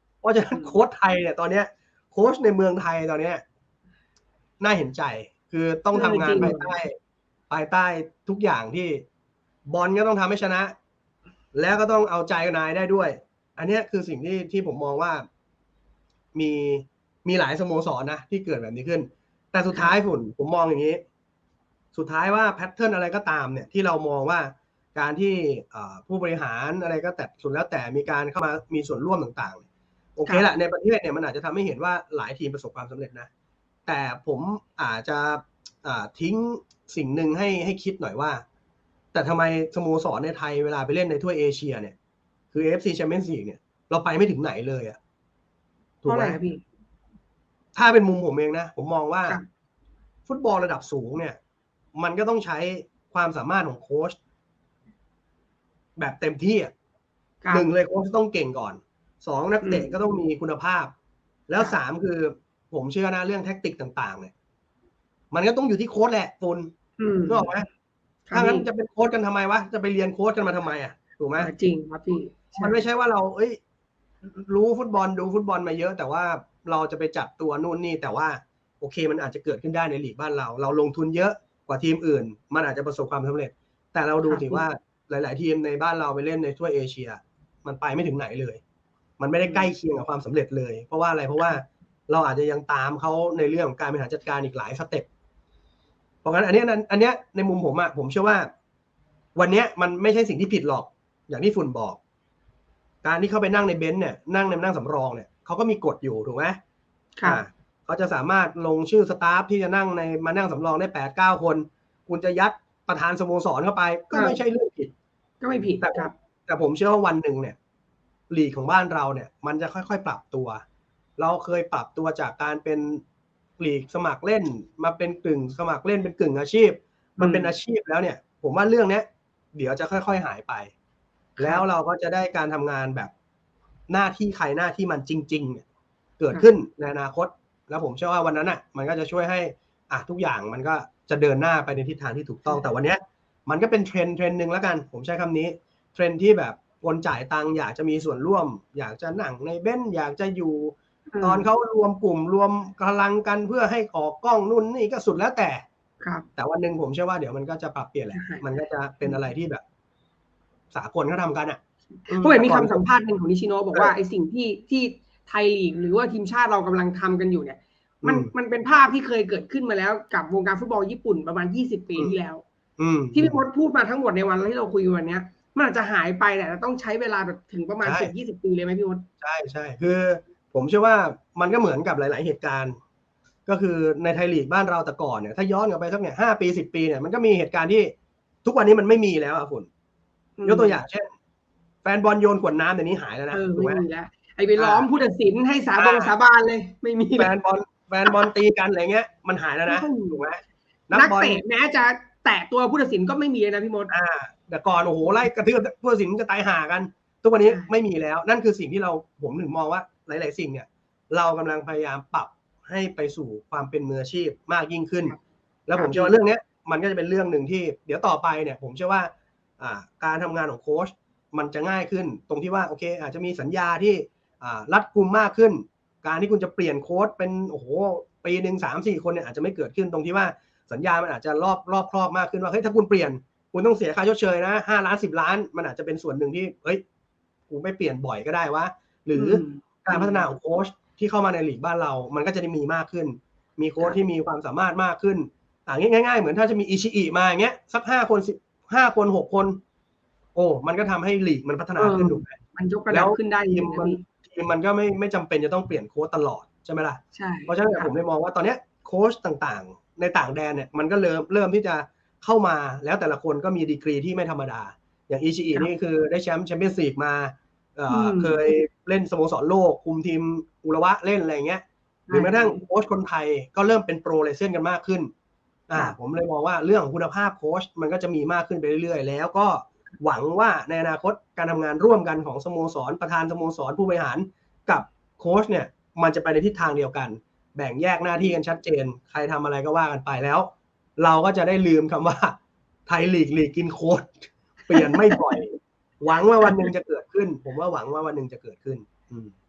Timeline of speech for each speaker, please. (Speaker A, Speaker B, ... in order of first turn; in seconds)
Speaker A: 0.2-3.4, 4.6-7.0, 7.5-9.0, 9.7-10.7, 11.5-15.2, 16.3-21.0, 21.9-29.6, 30.1-33.3, 33.9-38.4, 39.1-41.9, 42.5-45.0, 46.0-46.4, 47.7-49.4, 50.3-51.4, 52.0-54.2, 56.0-56.7, 57.5-60.9, 61.5-64.3, 65.3-66.7, 67.3-67.7, 68.3-71.5, 72.5-73.6, 74.2-88.6, 89.2-95.0, 96.2-98.5, 99.4-102.0, 103.0-106.6, 107.2-114.9, 115.8-117.5, 118.3-120.6, 121.2-123.0, 123.6-130.7, 131.4-133.1, 133.9-135.6, 136.2-155.6, 156.3-159.6, 160.7-162.8, 168.0-168.3, 172.8-173.4, 177.8-178.1, 179.2-182.8, 183.5-189.7, 190.4-191.1, 191.8-193.8, 194.6-194.9, 195.8-196.1, 197.2-201.4, 203.9-215.2, 215.7-236.8, 237.5-249.6, 250.3-252.4, 252.9-275.1, 275.7-299.3
Speaker B: 5.9-6.7, 30.2-30.5, 46.0-46.6, 57.4-57.7, 59.6-59.9, 67.0-67.5, 68.3-68.7, 71.4-72.8, 84.2-84.6, 89.4-89.7, 107.2-107.4, 114.1-114.4, 115.4-116.1, 127.2-127.5, 131.4-131.6, 151.1-151.5, 156.0-156.3, 158.1-158.5, 162.1-172.4, 173.1-179.1, 190.4-190.8, 193.3-197.3, 199.7-200.2, 200.9-203.9, 207.4-207.7, 215.8-216.1, 239.1-240.2, 251.8-254.0, 257.1-257.9, 267.9-268.4, 272.1-272.6, 294.7-295.2